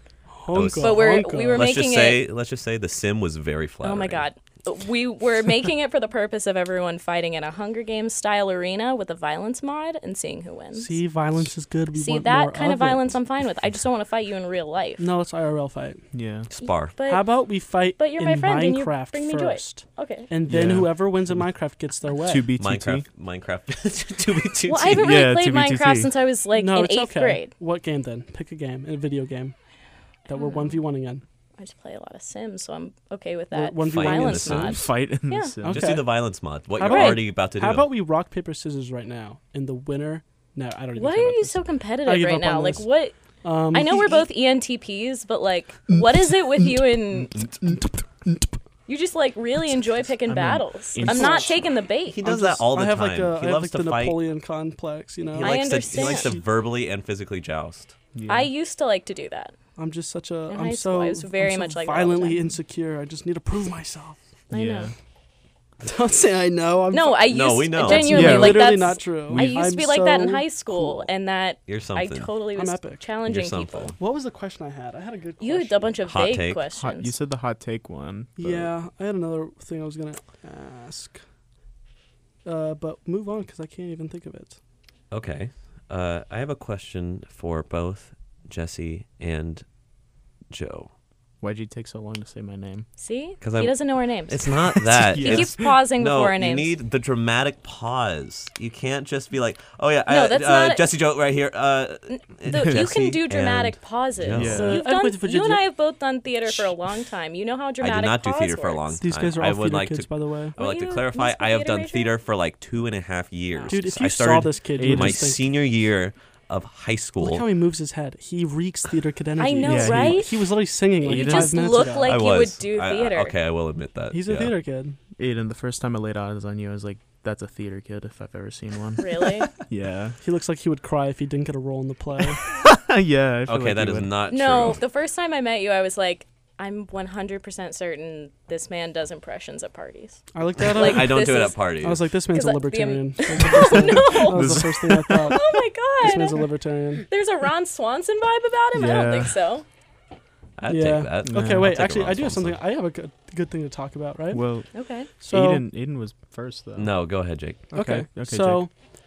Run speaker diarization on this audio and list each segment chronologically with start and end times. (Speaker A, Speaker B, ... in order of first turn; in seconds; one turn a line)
Speaker A: 0.3-1.7
Speaker B: 0.5-4.2
Speaker C: 0.8-2.2
Speaker C: 3.8-11.0
Speaker A: 10.8-13.2
Speaker C: 11.9-15.1
Speaker A: 15.0-16.0
Speaker D: 16.1-16.5
Speaker B: 16.6-16.9
Speaker C: 16.6-17.3
Speaker A: 17.1-22.5
Speaker C: 18.0-20.3
Speaker D: 20.5-21.4
Speaker D: 22.2-23.1
Speaker B: 22.6-25.2
Speaker C: 24.7-27.5
Speaker D: 24.9-26.1
Speaker A: 26.5-29.6
Speaker A: 30.3-31.2
Speaker C: 30.4-30.8
Speaker C: 31.6-35.6
Speaker A: 33.5-34.8
Speaker B: 33.9-34.8
Speaker D: 34.6-35.9
Speaker A: 35.6-36.2
Speaker B: 35.6-37.9
Speaker A: 36.8-42.9
Speaker C: 36.8-37.2
Speaker C: 41.0-43.1
Speaker A: 43.4-44.3
Speaker C: 43.7-47.5
Speaker A: 46.6-48.6
Speaker C: 48.9-52.2
Speaker D: 50.3-51.5
Speaker A: 51.0-51.6
Speaker B: 52.1-54.2
Speaker A: 52.2-56.4
Speaker B: 55.3-58.0
Speaker C: 55.4-56.4
Speaker D: 58.1-58.5
Speaker C: 58.3-59.5
Speaker A: 59.8-64.2
Speaker C: 60.5-62.4
Speaker C: 64.5-64.9
Speaker D: 64.5-64.9
Speaker A: 65.8-71.1
Speaker C: 66.9-74.0
Speaker B: 67.3-68.5
Speaker D: 68.1-69.8
Speaker B: 71.7-72.3
Speaker A: 72.6-73.0
Speaker B: 73.3-74.0
Speaker A: 74.0-76.0
Speaker C: 75.4-77.1
Speaker B: 76.0-76.6
Speaker D: 76.8-78.7
Speaker A: 78.4-81.2
Speaker A: 82.5-84.6
Speaker B: 85.1-89.6
Speaker B: 90.5-90.9
Speaker D: 91.4-92.9
Speaker C: 93.0-96.7
Speaker B: 93.4-104.8
Speaker D: 95.0-95.7
Speaker C: 100.1-100.9
Speaker C: 102.1-108.8
Speaker D: 102.5-102.8
Speaker D: 104.3-104.8
Speaker A: 104.5-105.6
Speaker B: 107.8-117.5
Speaker A: 109.0-110.5
Speaker C: 110.6-112.1
Speaker A: 113.7-115.5
Speaker D: 114.8-115.3
Speaker A: 117.2-122.2
Speaker C: 119.4-120.3
Speaker D: 119.6-120.3
Speaker D: 121.0-121.8
Speaker C: 121.0-123.3
Speaker B: 122.0-124.5
Speaker A: 124.1-125.0
Speaker D: 125.2-130.2
Speaker C: 129.0-129.5
Speaker A: 130.2-132.5
Speaker D: 132.4-134.1
Speaker B: 133.5-134.8
Speaker C: 134.3-141.6
Speaker A: 140.3-147.1
Speaker B: 140.6-142.0
Speaker C: 142.3-146.5
Speaker D: 143.6-145.4
Speaker C: 147.1-149.7
Speaker D: 148.7-149.4
Speaker B: 150.6-152.6
Speaker A: 150.7-154.4
Speaker D: 151.2-151.7
Speaker D: 154.3-156.9
Speaker C: 154.7-155.1
Speaker A: 155.2-155.6
Speaker B: 156.8-157.7
Speaker D: 157.7-158.6
Speaker A: 157.7-158.7